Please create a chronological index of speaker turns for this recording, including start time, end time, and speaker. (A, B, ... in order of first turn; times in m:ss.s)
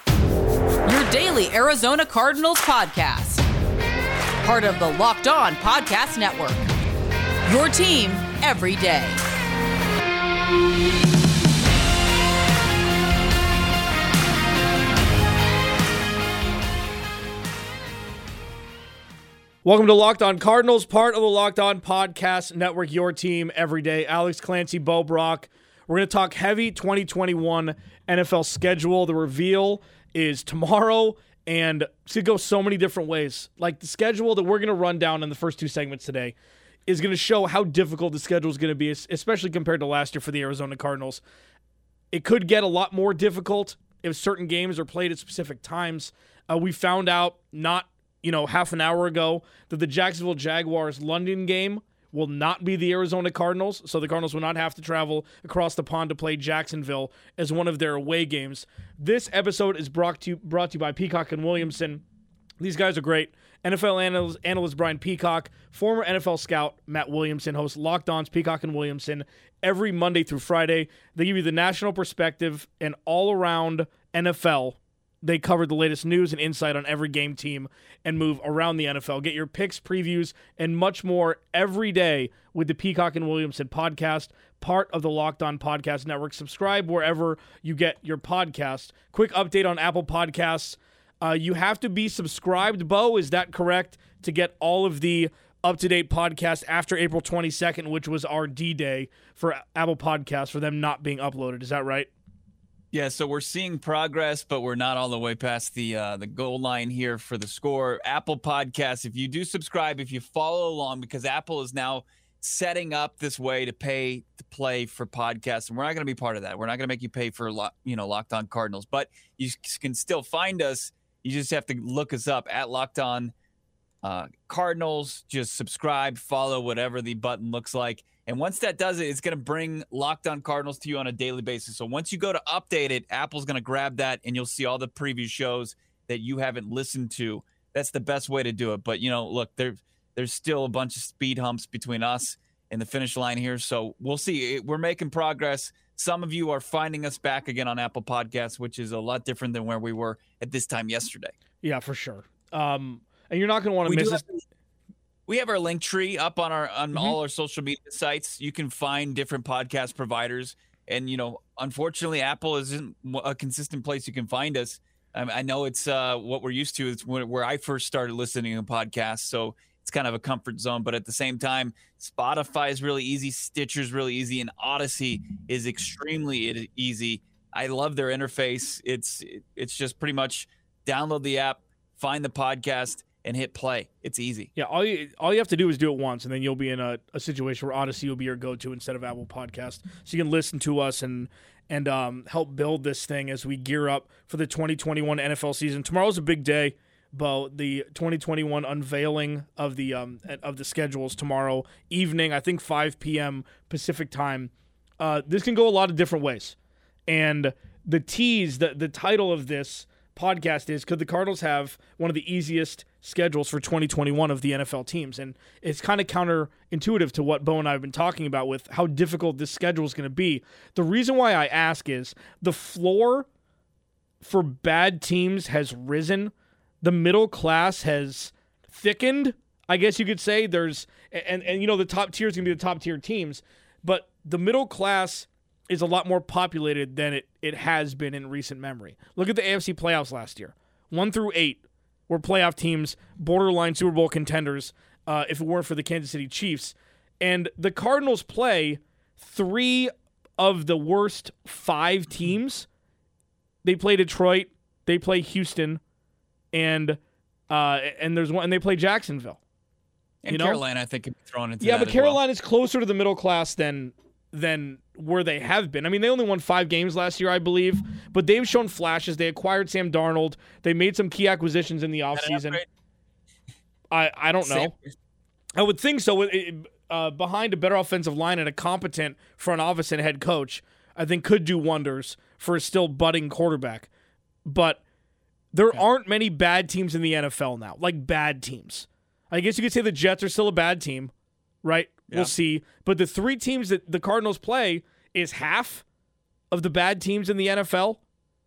0:00.8-0:03.4 A
0:04.4-0:06.7 A
0:07.4-0:09.2 A
0:19.6-0:36.3 B
0:36.9-0:41.2 B
0:42.1-1:02.0 B
1:02.6-1:42.1 B
1:42.9-2:03.3 C
2:04.0-2:31.3 C
2:31.6-2:34.2 B
2:33.8-2:34.4 C
2:35.3-3:04.5 C
3:04.6-3:26.6 B
3:27.1-3:43.3 B
3:44.2-4:12.7 B
4:13.6-4:15.8 B
4:16.5-4:19.4 B
4:20.2-4:22.2 C
4:20.3-4:20.6 B
4:21.6-4:32.6 B
4:32.1-4:32.6 C
4:33.9-4:34.7 B
4:34.4-4:34.7 C
4:35.6-4:43.9 B
4:44.4-4:44.8 B
4:45.5-4:51.1 B
4:51.6-4:55.8 B
4:56.5-4:58.0 B